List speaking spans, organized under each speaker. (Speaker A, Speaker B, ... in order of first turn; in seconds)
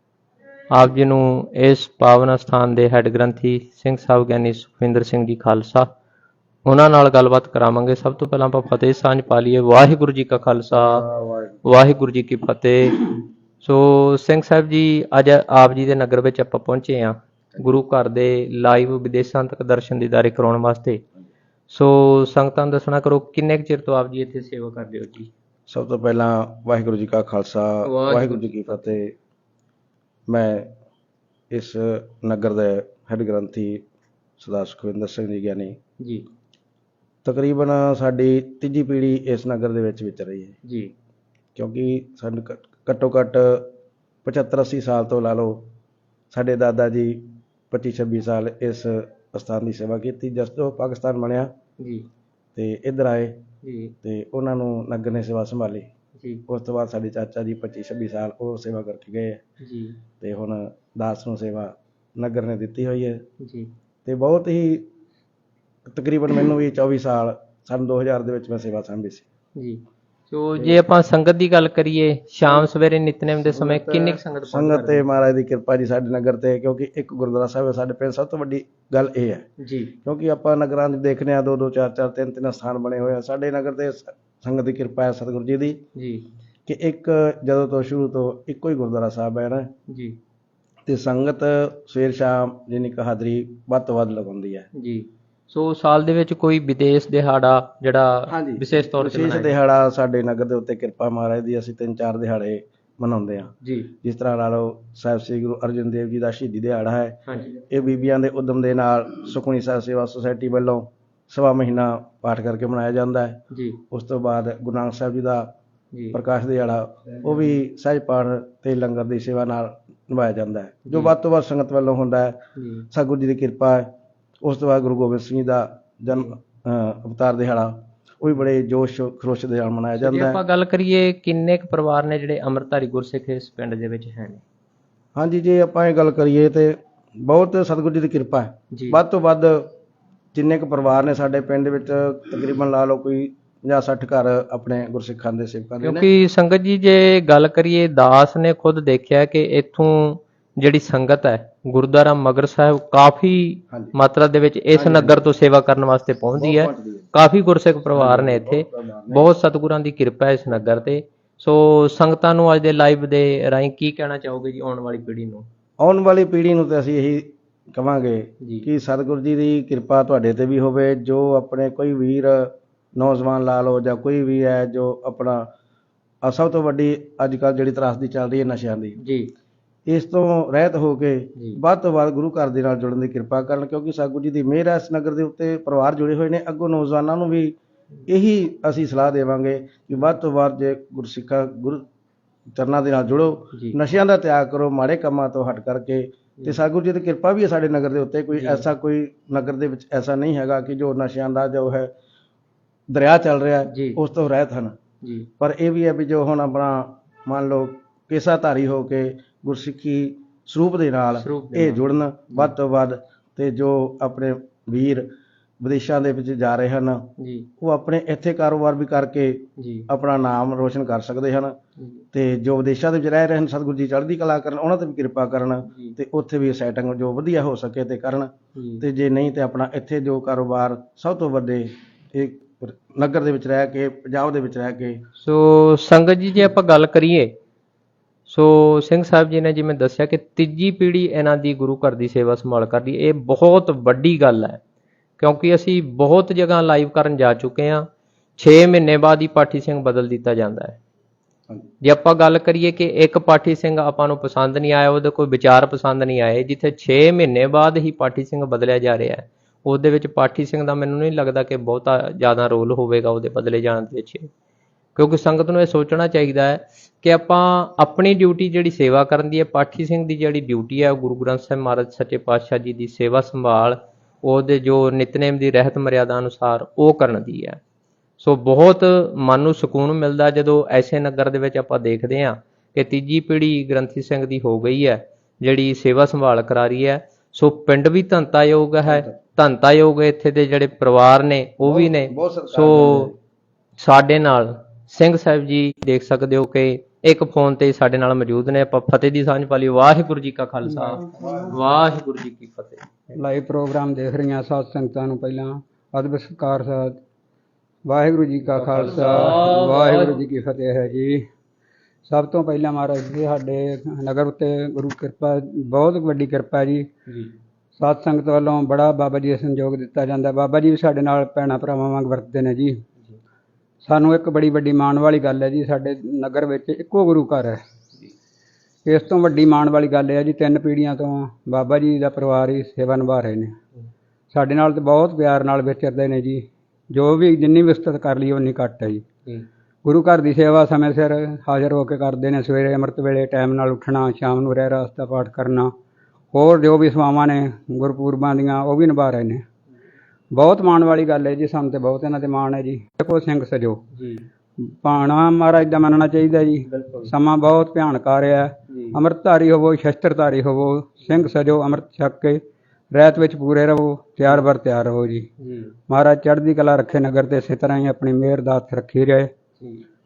Speaker A: 0.7-5.9, 6.6-11.0, 11.6-21.0, 21.7-25.3, 27.8-29.0, 36.0-36.2, 40.6-40.9, 51.8-52.1, 53.6-53.9, 56.2-56.4, 59.6-60.0, 63.4-63.7, 69.5-75.0, 79.6-79.9, 85.9-86.2, 89.9-90.2, 94.7-99.5, 103.6-103.9, 107.3-107.6, 113.5-113.8, 115.9-116.2, 120.9-121.1, 122.5-122.9, 130.0-134.4, 138.7-139.0, 145.8-165.4, 179.0-179.3, 198.3-198.7, 203.7-204.0, 205.0-205.3, 211.2-212.5, 217.2-217.5, 219.6-219.9, 221.8-222.0, 225.7-226.0, 228.5-228.8, 235.2-237.3, 238.3-244.6, 245.2-247.8, 248.4-250.8, 251.8-264.3, 264.9-277.6, 278.2-293.1, 293.8-302.9, 308.5-310.2, 317.1-317.3, 353.9-354.2, 356.7-357.1, 358.7-359.0, 365.4-365.7
Speaker B: 10.7-11.6, 25.7-29.1, 30.3-30.7, 31.5-33.8, 34.4-35.8, 37.2-40.5, 41.5-43.7, 44.2-45.6, 46.3-51.5, 52.5-53.4, 54.0-55.9, 56.5-59.4, 60.2-63.2, 64.0-64.9, 65.9-69.2, 73.4-79.4, 80.0-85.8, 86.7-89.7, 90.8-94.7, 98.3-113.4, 113.9-115.5, 116.1-122.4, 122.9-123.9, 124.4-130.4, 135.1-139.7, 140.3-146.1, 154.7-155.2, 156.4-157.1, 157.9-159.3, 165.8-175.5, 176.2-179.0, 179.9-187.6, 188.1-191.8, 192.5-201.9, 202.9-204.8, 205.4-215.1, 215.6-217.1, 217.6-221.6, 222.1-235.0, 288.8-289.1, 291.6-293.1
Speaker C: 303.1-307.0, 307.8-311.2, 312.1-316.9, 317.8-322.8, 323.8-327.6, 328.8-333.5, 334.3-339.0, 339.8-345.7, 346.3-349.4, 350.3-353.8, 354.6-362.4, 362.9-365.3, 365.9-369.3